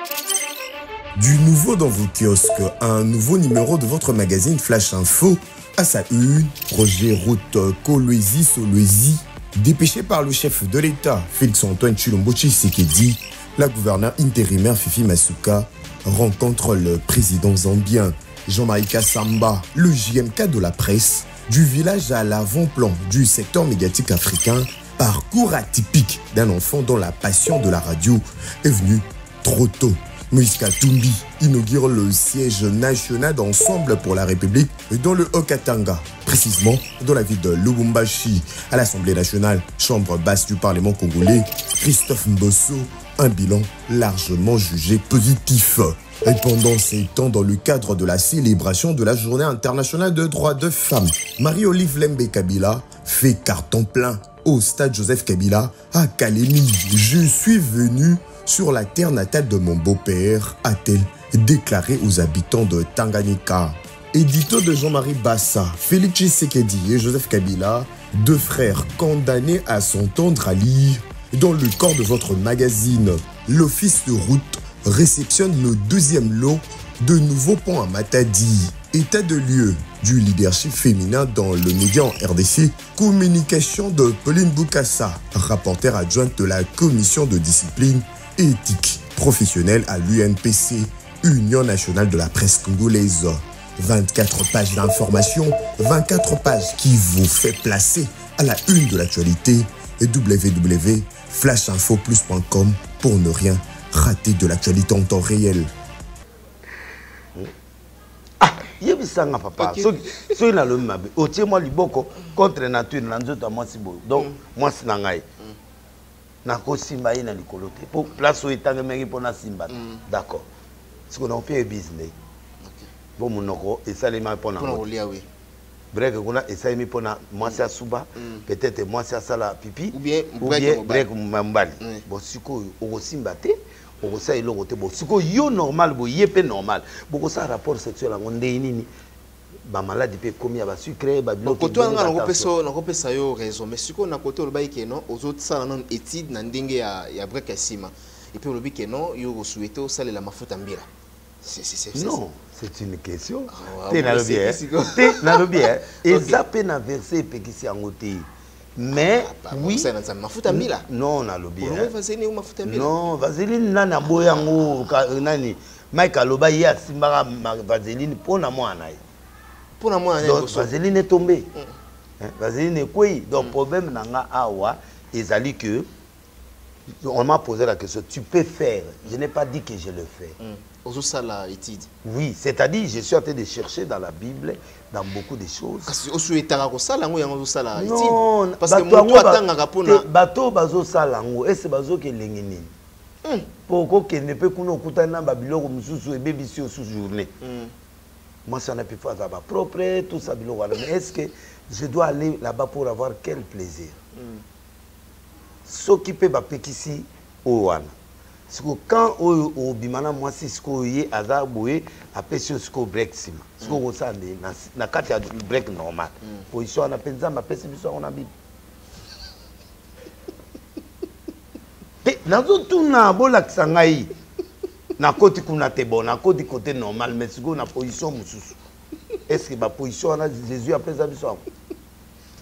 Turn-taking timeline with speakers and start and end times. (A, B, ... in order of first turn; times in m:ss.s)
0:01.2-1:45.7 A
1:48.4-1:55.2 B
1:49.6-1:50.3 C
1:56.4-2:00.5 B
1:59.7-2:00.0 C
2:01.1-2:02.1 B
2:02.6-2:02.9 C
2:03.2-2:04.8 B
2:04.6-2:05.2 C
2:05.9-2:18.9 B
2:08.2-2:08.4 C
2:09.9-2:11.0 C
2:19.6-2:22.5 B
2:21.4-2:30.9 C
2:31.4-2:32.2 C
2:31.9-2:39.9 B
2:33.5-2:36.4 C
2:39.2-2:40.8 C
2:40.5-2:41.9 B
2:41.6-2:42.9 C
2:42.6-2:49.0 B
2:49.8-2:50.7 C
2:50.2-2:51.5 B
2:52.2-2:55.9 B
2:56.9-3:00.3 B
3:00.4-3:01.9 C
3:02.0-3:05.9 B
3:05.9-3:10.0 C
3:07.7-3:12.7 B
3:13.7-3:17.3 B
3:17.4-3:17.7 C
3:18.4-3:24.0 B
3:24.1-3:24.4 C
3:25.6-3:27.9 B
3:28.5-3:38.3 B
3:42.0-3:44.1 B
3:45.0-3:48.6 B
3:49.3-3:51.4 B